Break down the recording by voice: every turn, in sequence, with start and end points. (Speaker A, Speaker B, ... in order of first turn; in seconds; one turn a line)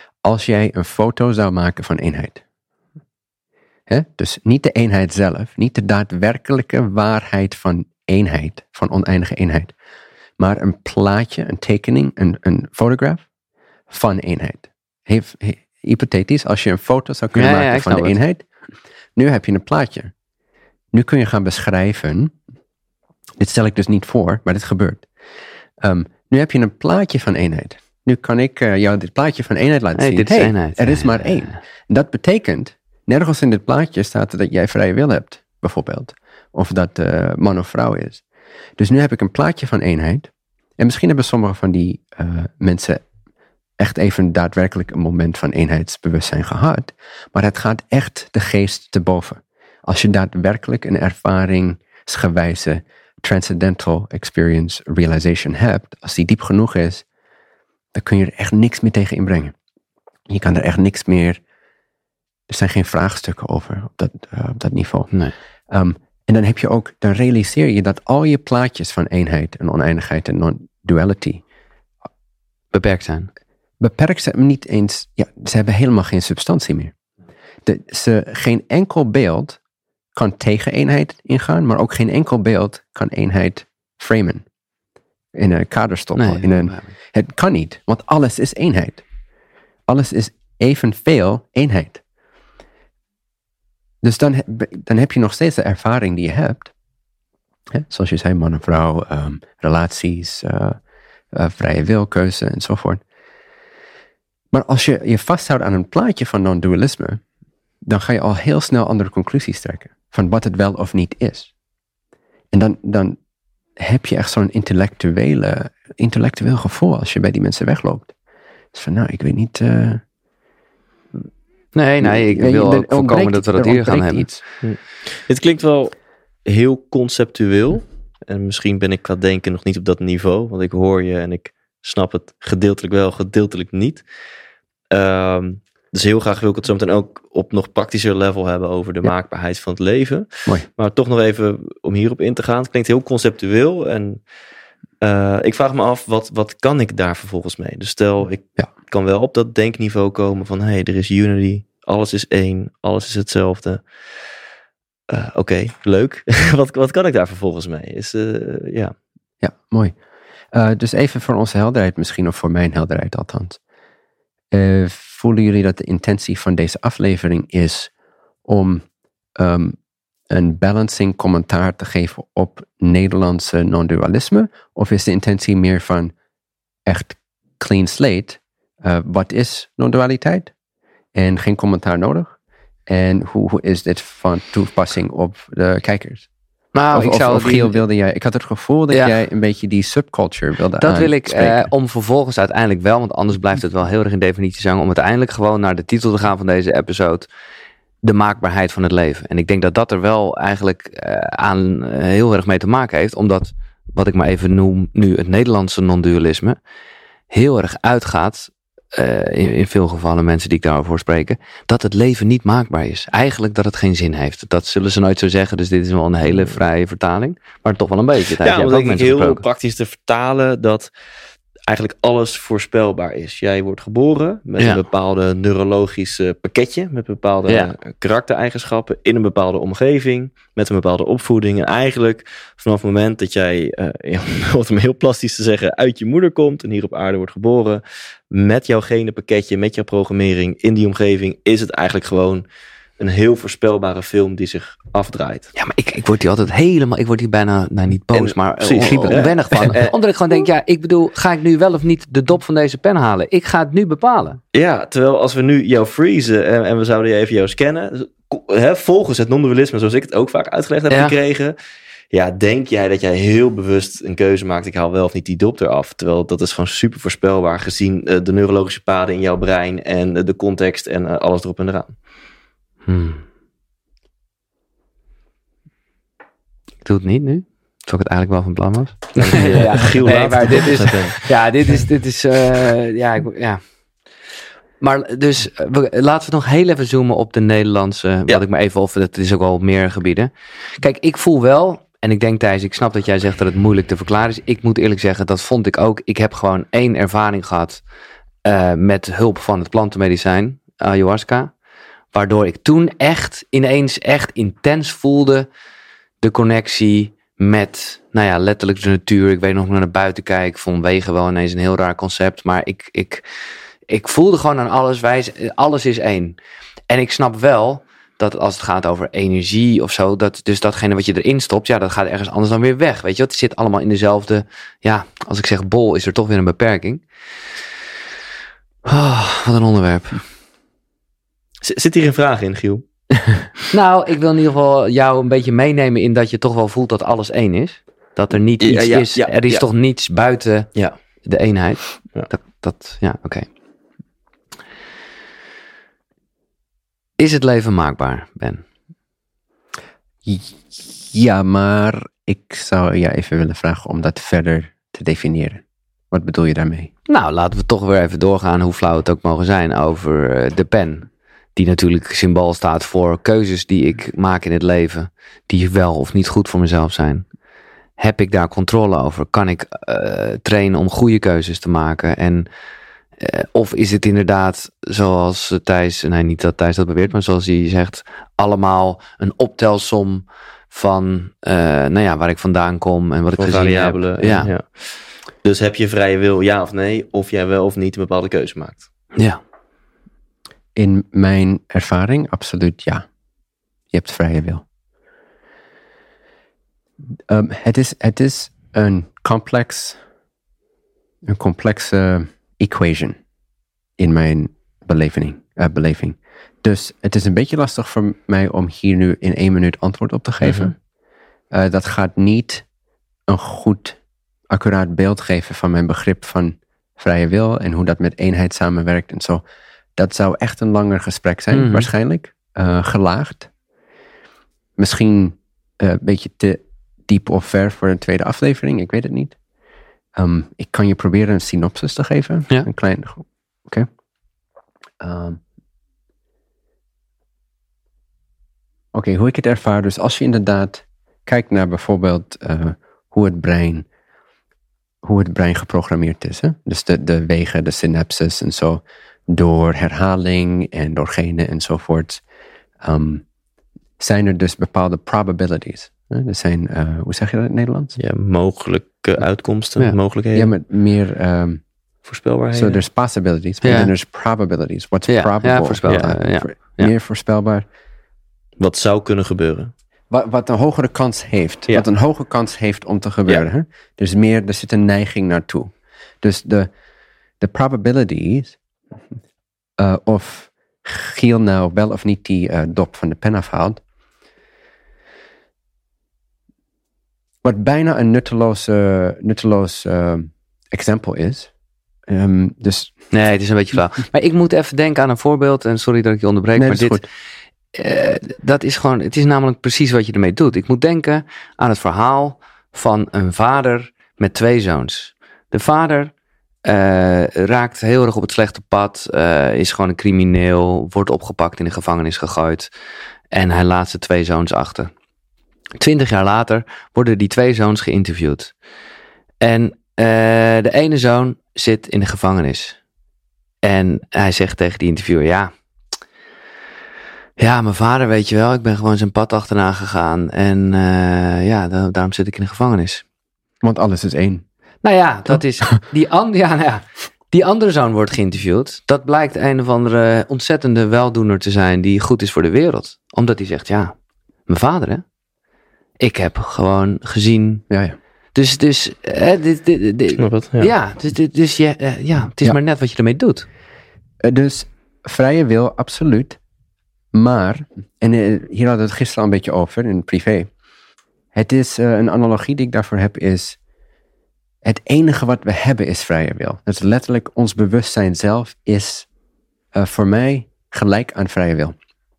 Speaker A: 0.2-2.4
Speaker A: 3.9-9.7
Speaker A: 10.4-13.2
Speaker A: 13.9-18.4
Speaker B: 17.3-18.2
Speaker A: 19.2-20.1
Speaker A: 20.9-22.4
Speaker A: 23.4-25.1
Speaker A: 25.8-38.2
Speaker B: 30.0-31.6
Speaker A: 38.8-43.0
Speaker A: 43.8-57.0
Speaker A: 57.9-59.5
Speaker A: 60.3-61.4
Speaker A: 62.5-65.1
Speaker A: 65.7-71.4
Speaker B: 72.7-73.3
Speaker A: 73.8-76.9
Speaker A: 77.7-79.6
Speaker A: 80.1-84.4
Speaker A: 85.3-89.0
Speaker B: 86.2-86.9
Speaker A: 89.9-92.0
Speaker A: 94.0-96.7
Speaker A: 97.7-100.8
Speaker A: 101.3-103.0
Speaker A: 104.5-107.2
Speaker A: 107.8-111.5
Speaker A: 112.5-113.2
Speaker A: 113.8-118.1
Speaker A: 118.7-120.0
Speaker B: 121.8-124.3
Speaker A: 122.0-124.4
Speaker C: 124.6-134.1
Speaker C: 134.9-144.2
Speaker C: 145.0-153.9
Speaker C: 155.1-158.9
Speaker A: 159.4-159.9
Speaker A: 160.5-163.6
Speaker A: 164.5-167.9
Speaker A: 168.4-168.8
Speaker A: 169.4-169.8
Speaker A: 170.3-176.1
Speaker A: 176.9-180.5
Speaker A: 181.2-182.3
Speaker A: 182.9-186.3
Speaker B: 186.7-187.8
Speaker A: 186.9-191.7
Speaker B: 190.8-197.3
Speaker B: 198.0-206.6
Speaker B: 207.3-219.4
Speaker C: 218.4-220.9
Speaker C: 221.7-242.5
Speaker C: 243.0-245.5
Speaker B: 245.6-254.4
Speaker C: 248.1-250.0
Speaker A: 248.8-249.8
Speaker C: 254.5-261.6
Speaker B: 260.9-261.1
Speaker C: 262.1-271.9
Speaker B: 272.9-273.2
Speaker B: 276.8-284.1
Speaker C: 279.2-281.2
Speaker B: 284.8-297.8
Speaker B: 298.4-301.5
Speaker B: 302.1-305.5
Speaker B: 306.2-313.2
Speaker B: 313.9-316.4
Speaker B: 316.9-327.0
Speaker B: 328.9-330.3
Speaker C: 331.6-332.9
Speaker B: 333.7-343.5
Speaker C: 338.6-339.7
Speaker B: 347.2-348.6
Speaker A: 350.2-356.9
Speaker B: 357.1-367.3
Speaker B: 368.0-372.5
Speaker B: 373.2-384.5
Speaker C: 383.4-388.9
Speaker B: 389.1-389.4
Speaker A: 390.8-393.1
Speaker A: 393.9-394.6
Speaker A: 397.3-400.0
Speaker A: 401.2-403.2
Speaker A: 404.0-410.8
Speaker C: 410.4-410.7
Speaker A: 411.5-412.7
Speaker A: 413.3-414.0
Speaker A: 414.5-419.4
Speaker A: 420.0-423.5
Speaker B: 421.5-421.9
Speaker A: 424.8-429.4
Speaker A: 430.2-433.9
Speaker A: 435.0-435.4
Speaker A: 438.9-443.9
Speaker A: 445.0-452.2
Speaker A: 452.8-453.2
Speaker A: 454.0-458.0
Speaker C: 458.0-460.5
Speaker A: 460.3-461.6
Speaker C: 462.1-462.8
Speaker A: 462.5-467.7
Speaker B: 463.6-463.9
Speaker B: 465.1-466.9
Speaker C: 465.9-466.1
Speaker C: 468.6-469.7
Speaker A: 470.1-476.7
Speaker A: 477.4-478.6
Speaker A: 479.8-483.8
Speaker A: 487.4-491.5
Speaker A: 492.1-493.0
Speaker B: 493.1-497.1
Speaker A: 496.6-497.0
Speaker B: 497.7-506.1
Speaker B: 506.6-512.7
Speaker B: 513.3-514.9
Speaker B: 515.8-518.6
Speaker B: 519.4-522.8
Speaker B: 523.6-525.5
Speaker B: 527.4-533.0
Speaker A: 533.6-534.4
Speaker B: 534.8-544.0
Speaker B: 544.5-545.0
Speaker B: 546.0-547.7
Speaker A: 547.7-548.0
Speaker B: 548.4-553.5
Speaker C: 550.2-550.7
Speaker A: 554.2-556.4
Speaker A: 557.1-560.5
Speaker A: 561.3-563.6
Speaker A: 564.6-569.1
Speaker A: 569.7-571.8